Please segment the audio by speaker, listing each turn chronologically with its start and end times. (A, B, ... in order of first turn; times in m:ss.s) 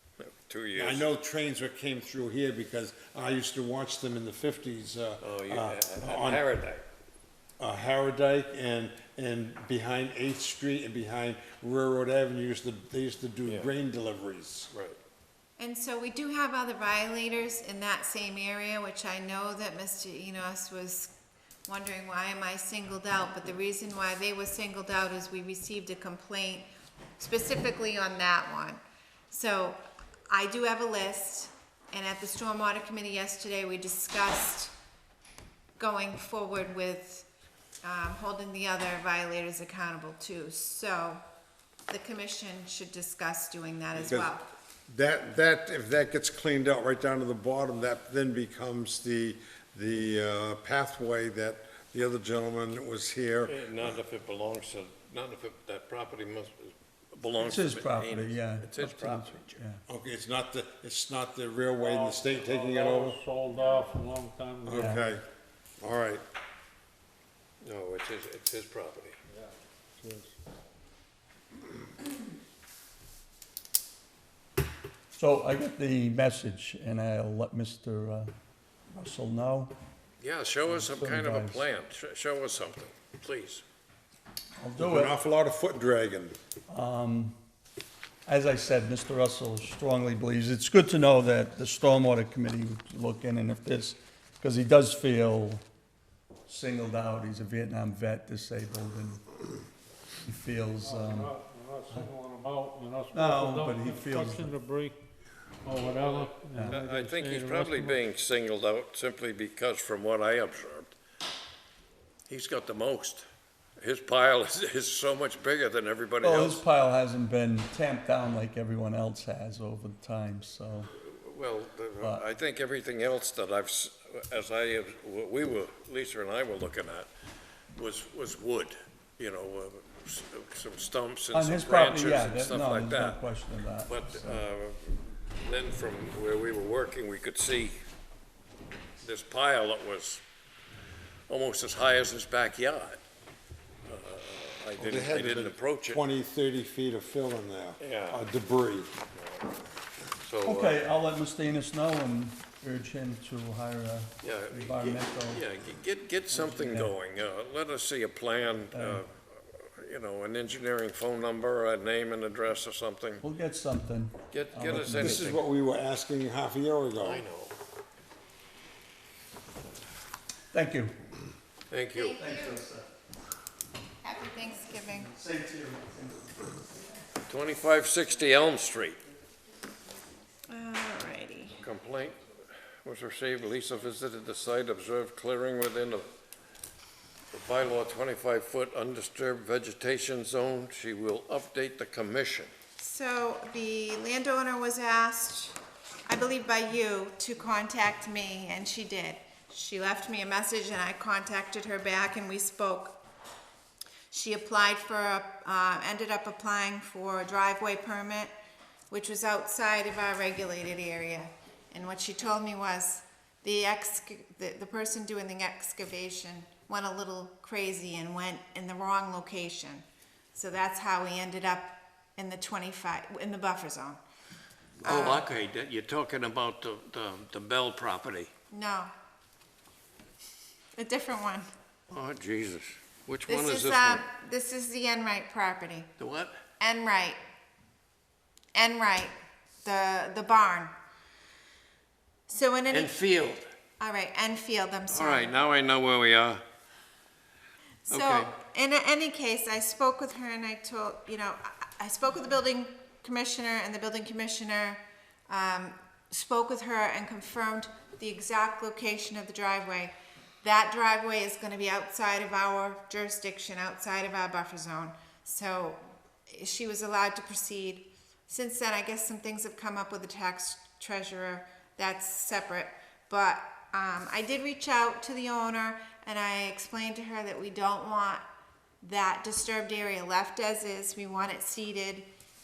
0:00.2-0:01.1 A
0:00.8-0:06.4 B
0:05.2-0:06.8 A
0:07.6-0:14.7 B
0:13.5-0:13.7 A
0:14.7-0:15.0 A
0:15.6-0:21.1 C
0:21.7-0:26.7 C
0:27.2-0:28.8 C
0:29.3-0:34.7 C
0:35.8-0:37.3 C
0:37.8-0:41.2 C
0:41.9-0:44.5 C
0:44.0-0:44.3 B
0:44.9-0:53.6 B
0:53.4-0:59.6 A
0:57.4-0:59.8 D
0:59.9-1:03.2 B
1:01.8-1:04.9 E
1:04.6-1:05.2 B
1:04.7-1:05.1 D
1:05.8-1:06.2 B
1:07.6-1:09.2 A
1:09.3-1:10.3 E
1:15.2-1:18.3 D
1:18.9-1:19.7 D
1:20.2-1:23.6 A
1:20.7-1:21.6 D
1:24.6-1:25.1 D
1:24.8-1:26.4 B
1:26.7-1:27.4 D
1:28.3-1:35.6 D
1:36.5-1:39.2 D
1:40.2-1:41.3 D
1:40.8-1:45.0 E
1:43.1-1:44.5 D
1:45.6-1:48.0 E
1:45.8-1:50.9 A
1:46.5-1:46.8 D
1:52.3-1:53.3 A
1:53.8-1:56.6 A
1:56.2-2:00.9 D
2:01.0-2:07.1 A
2:07.8-2:13.2 A
2:11.3-2:14.4 D
2:13.9-2:17.8 A
2:19.0-2:20.2 A
2:21.3-2:23.0 A
2:23.9-2:26.0 A
2:24.8-2:28.9 B
2:27.8-2:28.2 A
2:29.2-2:29.5 A
2:30.2-2:30.8 A
2:30.4-2:35.4 D
2:34.2-2:43.2 A
2:36.3-2:36.9 D
2:38.7-2:39.0 D
2:43.2-2:45.4 D
2:44.3-2:45.4 A
2:45.0-2:47.2 B
2:47.0-2:47.6 A
2:50.5-2:50.9 D
2:51.7-2:52.2 A
2:52.0-2:52.6 C
2:52.2-2:52.9 D
2:54.0-2:55.1 C
2:55.0-2:56.5 D
2:57.3-2:59.0 A
3:00.5-3:01.6 C
3:01.6-3:02.2 A
3:02.8-3:06.1 A
3:07.3-3:12.5 A
3:12.8-3:23.0 C
3:24.1-3:28.3 C
3:28.9-3:44.0 C
3:44.8-3:45.3 C
3:44.8-3:48.3 A
3:48.5-3:48.9 C
3:50.8-3:51.5 C
3:51.9-3:54.0 A
3:53.3-3:55.9 C
3:56.0-3:56.4 A
3:56.6-3:57.2 C
3:58.6-4:00.7 C
4:02.3-4:03.0 C
4:02.7-4:03.5 A
4:03.8-4:05.4 C
4:04.9-4:06.4 A
4:07.9-4:38.2 C
4:07.9-4:08.3 A
4:38.8-4:42.1 C